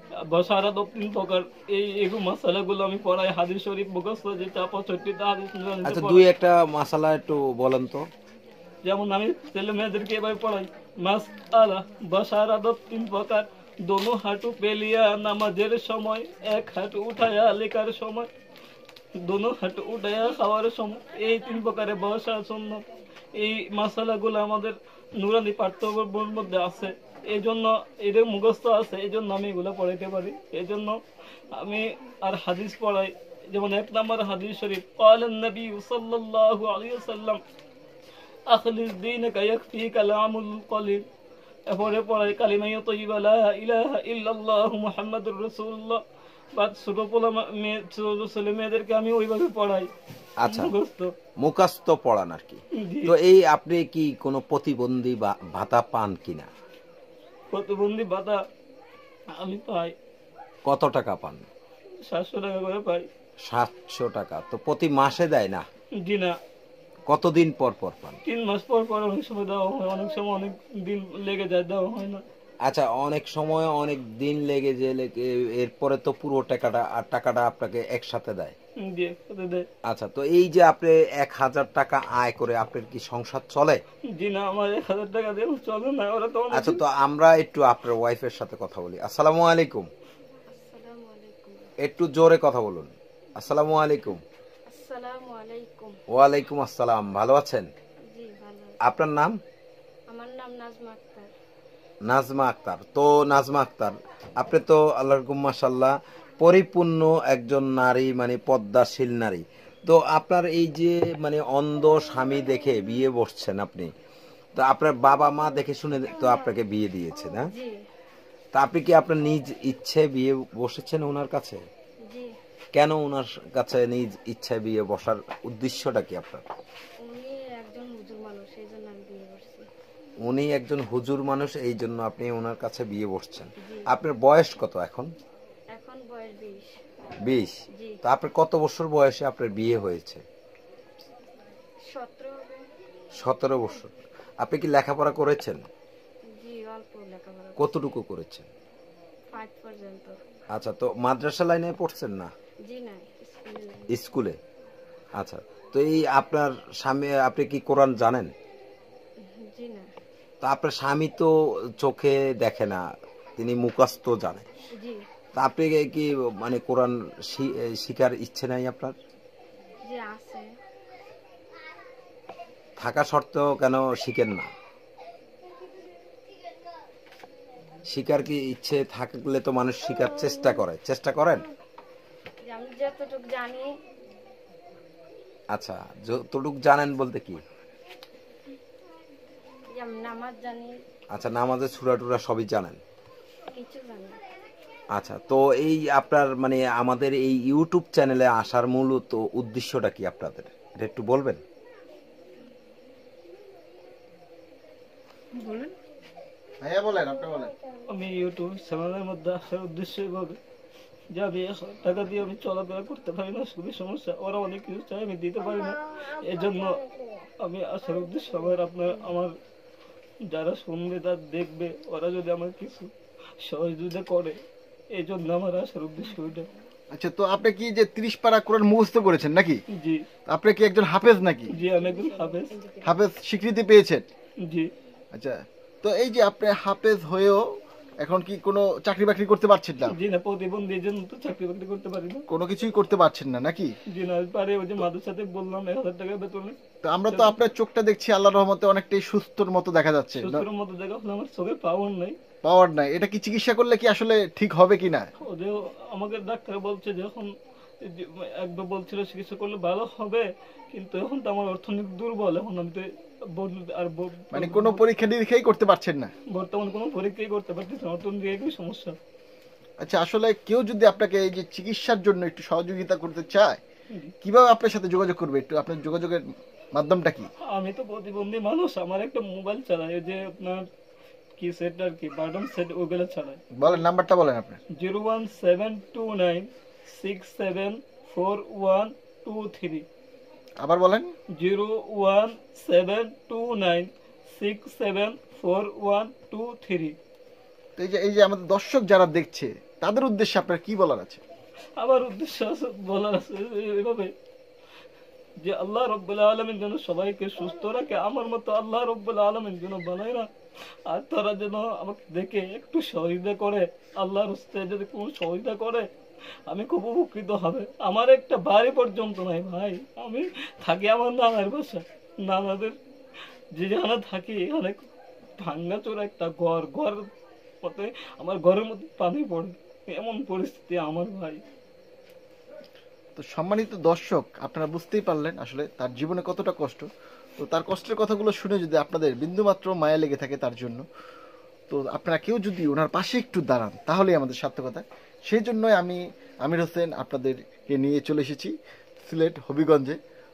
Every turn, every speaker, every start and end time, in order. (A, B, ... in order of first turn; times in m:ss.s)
0:00.2-0:06.2 A
0:05.8-0:08.1 B
0:08.8-0:18.3 A
0:19.2-0:31.0 A
0:31.5-0:37.4 A
0:38.5-0:41.0 A
0:41.7-0:46.0 A
0:46.5-0:49.9 A
0:50.4-0:50.7 B
0:50.4-0:51.1 A
0:51.4-0:56.5 B
0:52.7-0:53.2 A
0:57.5-0:58.4 A
0:59.3-0:59.9 A
1:00.6-1:01.5 B
1:02.0-1:03.1 A
1:03.4-1:05.7 B
1:06.0-1:06.4 A
1:07.1-1:08.2 B
1:08.2-1:12.2 A
1:12.6-1:18.5 B
1:18.8-1:19.7 A
1:19.8-1:23.8 B
1:24.1-1:26.8 A
1:26.5-1:29.9 B
1:30.5-1:31.7 C
1:31.8-1:34.2 B
1:34.7-1:36.0 C
1:36.1-1:37.7 B
1:38.1-1:38.8 C
1:38.8-1:39.4 B
1:40.1-1:41.3 C
1:42.1-1:53.9 B
1:54.6-1:57.5 B
1:57.5-1:57.8 C
1:58.5-2:01.6 B
2:02.1-2:02.3 C
2:02.7-2:06.4 B
2:07.0-2:09.7 C
2:10.2-2:15.1 B
2:13.6-2:13.9 C
2:15.7-2:16.7 C
2:17.2-2:20.2 B
2:21.9-2:22.6 C
2:23.2-2:25.6 B
2:26.3-2:27.8 C
2:27.6-2:28.5 B
2:29.3-2:30.2 C
2:30.5-2:32.3 B
2:32.6-2:33.9 C
2:33.9-2:34.4 B
2:35.2-2:38.3 B
2:39.2-2:39.9 C
2:40.4-2:42.8 B
2:43.4-2:44.5 B
2:44.8-2:45.0 C
2:45.4-2:48.9 B
2:49.8-2:50.5 C
2:52.8-2:54.5 B
2:57.9-3:01.4 B
3:02.4-3:03.7 C
3:05.5-3:07.4 B
3:09.7-3:10.8 C
3:11.1-3:12.8 B
3:13.5-3:14.2 C
3:14.9-3:21.4 B
3:26.6-3:27.5 D
3:27.9-3:30.4 A
3:31.1-3:36.8 A
3:37.4-3:39.3 A
3:40.3-3:44.4 A
3:44.9-3:46.5 A
3:46.9-3:49.6 D
3:49.7-3:50.0 A
3:50.3-3:51.5 D
3:51.5-3:52.5 A
3:51.8-3:52.9 C
3:52.8-3:54.0 D
3:55.1-3:57.4 D
3:58.0-4:00.0 D
3:59.9-4:02.2 A
4:02.3-4:03.7 D
4:03.9-4:06.6 A
4:06.8-4:10.4 D
4:07.1-4:07.4 A
4:10.2-4:12.2 A
4:12.4-4:15.1 D
4:15.2-4:17.3 A
4:17.8-4:24.8 A
4:24.3-4:26.1 D
4:26.3-4:29.0 A
4:29.8-4:33.6 D
4:34.2-4:37.3 D
4:37.5-4:40.6 A
4:41.4-4:43.8 A
4:43.5-4:44.6 D
4:44.8-4:49.8 A
4:50.6-4:51.1 D
4:51.4-4:57.0 A
4:57.8-5:01.2 D
5:01.8-5:04.1 A
5:05.4-5:10.3 A
5:10.9-5:15.9 A
5:16.5-5:22.8 A
5:23.6-5:24.8 A
5:25.4-5:27.1 A
5:27.6-5:31.4 A
5:33.2-5:36.9 D
5:37.4-5:40.8 D
5:41.7-5:50.0 D